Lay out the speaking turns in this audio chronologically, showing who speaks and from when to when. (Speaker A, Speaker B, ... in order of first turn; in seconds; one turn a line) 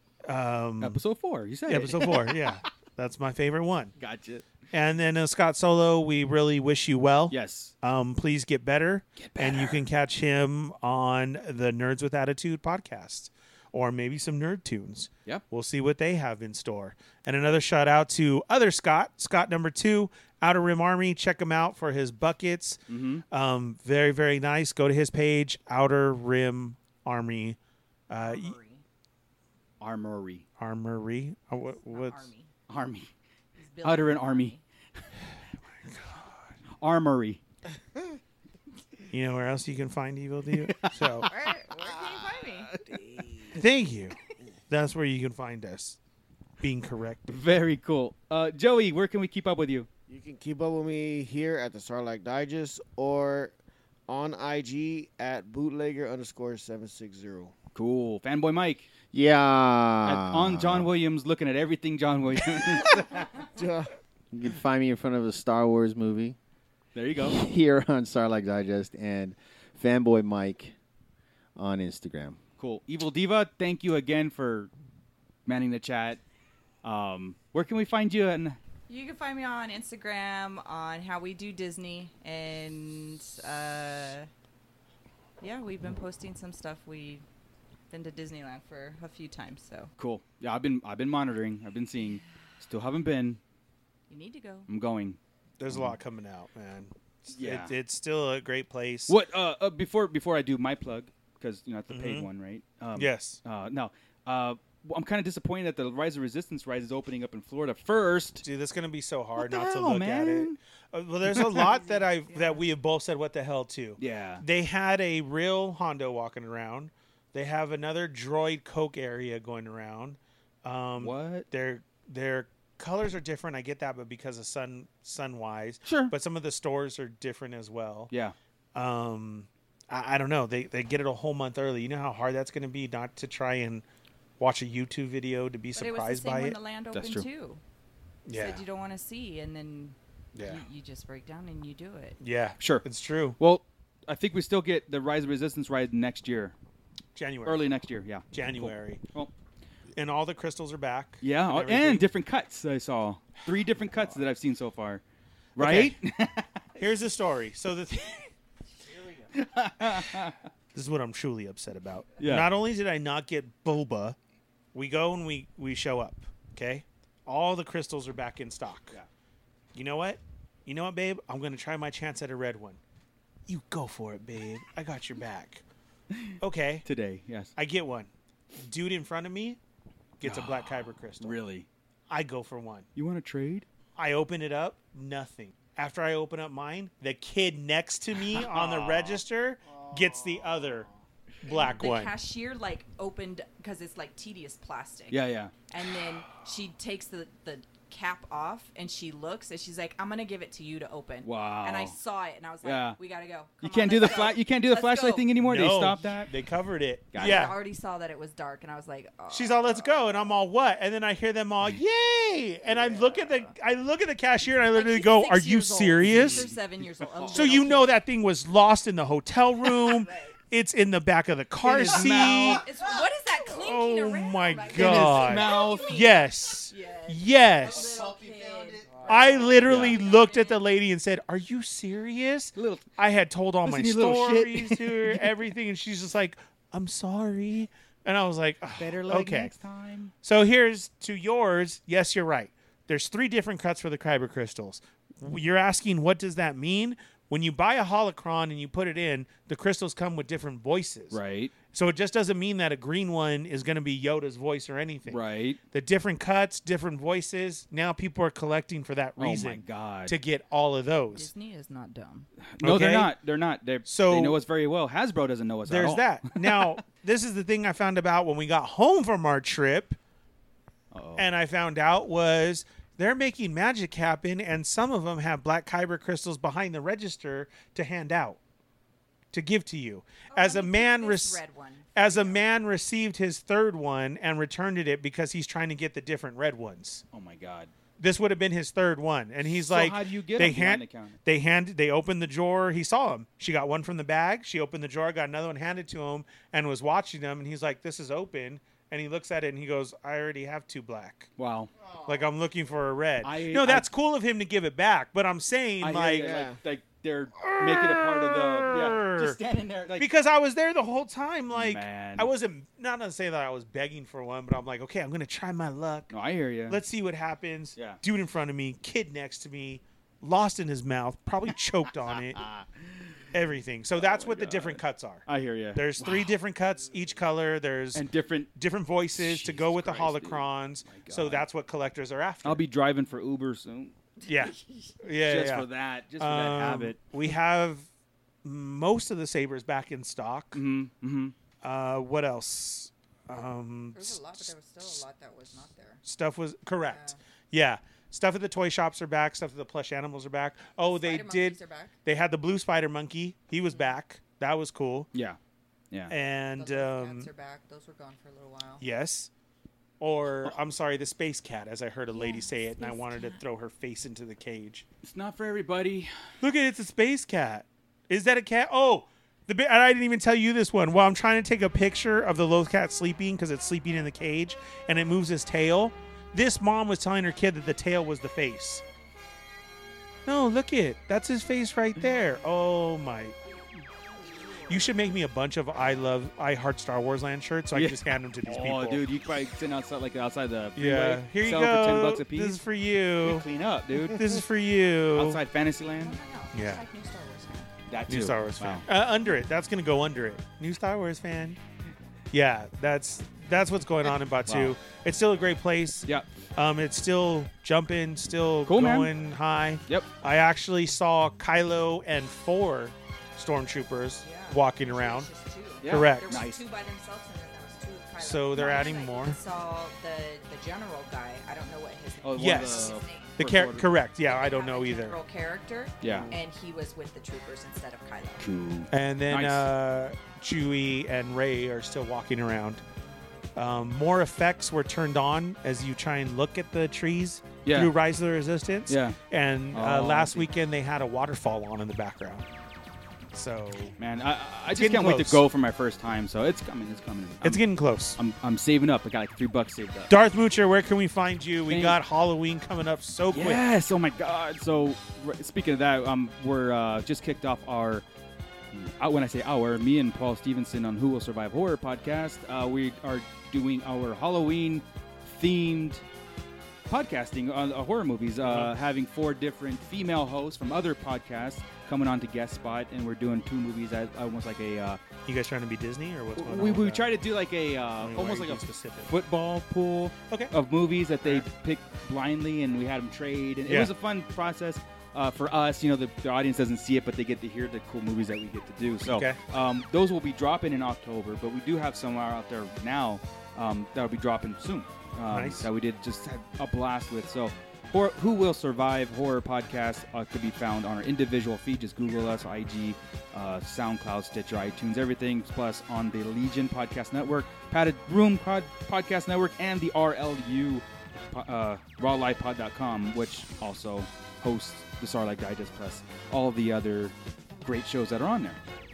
Speaker A: 0.2-1.0
Speaker B: 0.8-2.7
Speaker A: 1.7-3.9
Speaker B: 4.0-4.5
Speaker A: 4.7-27.6
Speaker B: 7.3-7.7
Speaker B: 9.2-9.8
Speaker B: 22.9-23.2
Speaker A: 28.1-28.6
Speaker C: 28.2-28.8
Speaker B: 29.8-30.4
Speaker A: 30.6-32.3
Speaker C: 31.6-32.5
Speaker B: 32.7-33.1
Speaker C: 33.6-34.6
Speaker B: 33.8-34.6
Speaker A: 35.8-36.5
Speaker B: 36.8-37.4
Speaker A: 39.1-41.3
Speaker B: 40.5-41.5
Speaker C: 41.2-42.7
Speaker B: 42.7-43.5
Speaker A: 43.5-44.2
Speaker A: 44.7-46.0
Speaker A: 46.6-47.3
Speaker B: 47.3-49.9
Speaker D: 50.1-53.5
Speaker D: 54.1-57.5
Speaker B: 57.8-58.9
Speaker E: 59.1-60.9
Speaker B: 60.0-63.3
Speaker D: 63.4-63.9
Speaker E: 64.3-66.4
Speaker B: 67.0-67.4
Speaker E: 67.2-70.7
Speaker E: 71.6-72.4
Speaker B: 72.6-74.7
Speaker B: 75.5-76.2
Speaker B: 76.8-78.6
Speaker C: 78.9-84.3
Speaker C: 85.4-87.2
Speaker C: 87.9-89.9
Speaker B: 90.0-93.4
Speaker C: 94.1-94.7
Speaker B: 94.7-95.2
Speaker A: 95.6-99.1
Speaker B: 95.7-96.0
Speaker B: 97.3-97.7
Speaker B: 99.1-108.5
Speaker A: 101.9-102.3
Speaker A: 103.0-103.4
Speaker A: 108.4-128.1
Speaker B: 109.4-110.6
Speaker B: 111.3-111.6
Speaker C: 111.8-112.6
Speaker B: 114.0-114.5
Speaker B: 121.0-121.5
Speaker B: 125.8-126.1
Speaker B: 128.1-128.4
Speaker A: 128.8-133.8
Speaker A: 134.4-136.6
Speaker C: 135.8-137.6
Speaker B: 136.9-137.3
Speaker A: 138.3-138.6
Speaker C: 138.3-142.2
Speaker A: 140.4-140.6
Speaker A: 142.2-143.4
Speaker B: 142.6-142.8
Speaker B: 143.4-146.6
Speaker A: 147.2-147.6
Speaker B: 147.4-149.3
Speaker A: 148.3-149.0
Speaker A: 149.9-152.1
Speaker B: 151.2-155.0
Speaker A: 153.7-154.2
Speaker A: 155.6-155.9
Speaker B: 155.6-156.8
Speaker A: 156.8-158.3
Speaker B: 159.3-160.4
Speaker A: 160.7-164.2
Speaker B: 162.2-162.5
Speaker A: 164.7-169.0
Speaker A: 169.8-172.8
Speaker A: 173.5-175.6
Speaker B: 176.1-177.5
Speaker A: 176.4-176.8
Speaker A: 177.6-179.6
Speaker A: 180.2-181.4
Speaker B: 180.2-181.7
Speaker A: 182.1-182.9
Speaker B: 183.0-183.7
Speaker A: 184.0-190.9
Speaker B: 188.3-189.2
Speaker A: 191.4-192.1
Speaker C: 191.5-205.3
Speaker B: 195.1-195.5
Speaker B: 201.2-201.9
Speaker B: 202.6-203.0
Speaker B: 203.6-206.3
Speaker A: 205.4-207.6
Speaker B: 207.1-207.5
Speaker C: 207.2-210.0
Speaker A: 209.3-216.5
Speaker C: 212.8-213.5
Speaker C: 214.7-218.0
Speaker B: 216.1-216.5
Speaker A: 217.3-222.7
Speaker C: 219.7-220.4
Speaker B: 221.6-222.7
Speaker C: 221.8-230.6
Speaker A: 223.5-228.1
Speaker B: 224.8-226.0
Speaker E: 227.8-229.6
Speaker A: 229.1-239.5
Speaker B: 229.7-230.0
Speaker B: 232.6-232.8
Speaker B: 233.7-235.3
Speaker B: 238.8-240.1
Speaker A: 240.2-251.2
Speaker B: 251.1-251.5
Speaker A: 251.7-255.2
Speaker B: 255.1-255.6
Speaker A: 255.7-261.3
Speaker B: 259.2-260.2
Speaker C: 261.1-262.3
Speaker B: 262.5-266.8
Speaker A: 262.6-263.1
Speaker A: 263.9-264.4
Speaker A: 265.7-270.0
Speaker B: 270.9-271.3
Speaker A: 271.2-278.4
Speaker A: 279.3-281.4
Speaker C: 280.3-282.4
Speaker A: 282.0-287.0
Speaker B: 287.1-287.7
Speaker A: 288.0-301.3
Speaker B: 289.4-291.2
Speaker B: 301.4-301.7
Speaker A: 302.1-306.3
Speaker B: 303.2-303.9
Speaker B: 305.8-310.1
Speaker D: 306.2-306.6
Speaker A: 307.4-309.4
Speaker A: 310.0-316.1
Speaker B: 311.5-312.3
Speaker B: 316.1-316.8
Speaker A: 316.7-322.4
Speaker B: 322.4-322.7
Speaker A: 323.3-332.6
Speaker B: 324.0-326.3
Speaker B: 327.9-328.5
Speaker B: 329.2-331.5
Speaker B: 332.4-333.9
Speaker C: 334.2-335.0
Speaker A: 334.3-335.7
Speaker B: 335.2-337.0
Speaker A: 336.2-337.9
Speaker A: 338.4-340.6
Speaker B: 340.5-341.4
Speaker A: 341.6-345.0
Speaker C: 343.9-346.0
Speaker A: 346.1-355.1
Speaker C: 346.9-347.2
Speaker C: 350.9-351.9
Speaker C: 353.7-354.0
Speaker B: 355.1-355.4
Speaker A: 356.1-357.3
Speaker C: 356.6-358.8
Speaker A: 358.8-359.3
Speaker A: 360.0-364.9
Speaker C: 362.1-363.4
Speaker B: 365.0-366.1
Speaker A: 366.4-378.8
Speaker A: 380.3-383.4
Speaker A: 384.7-389.0
Speaker B: 387.7-392.6
Speaker A: 390.8-393.5
Speaker B: 393.2-394.3
Speaker A: 394.1-395.4
Speaker B: 395.1-396.2
Speaker C: 396.0-397.7
Speaker A: 396.5-396.8
Speaker B: 397.9-398.9
Speaker A: 398.1-401.6
Speaker A: 402.3-415.3
Speaker B: 404.5-404.8
Speaker B: 408.7-409.1
Speaker C: 414.2-423.4
Speaker B: 415.8-416.6
Speaker A: 415.9-416.4
Speaker A: 418.2-419.4
Speaker B: 422.2-423.9
Speaker A: 422.4-425.2
Speaker C: 424.2-428.4
Speaker B: 426.0-426.3
Speaker B: 428.4-429.7
Speaker A: 428.9-432.8
Speaker A: 433.6-442.5
Speaker B: 437.6-437.9
Speaker B: 438.9-439.2
Speaker B: 439.7-440.5
Speaker A: 443.3-444.0
Speaker B: 444.0-447.6
Speaker A: 444.7-445.4
Speaker A: 447.4-448.2
Speaker B: 448.2-450.1
Speaker A: 450.1-453.6
Speaker B: 451.7-452.0
Speaker B: 453.3-458.1
Speaker B: 458.7-466.0
Speaker B: 466.9-475.0
Speaker A: 468.4-468.7
Speaker A: 475.3-477.1
Speaker B: 476.4-518.6
Speaker A: 478.0-479.1
Speaker A: 483.7-483.9
Speaker A: 489.1-489.4
Speaker A: 495.3-495.7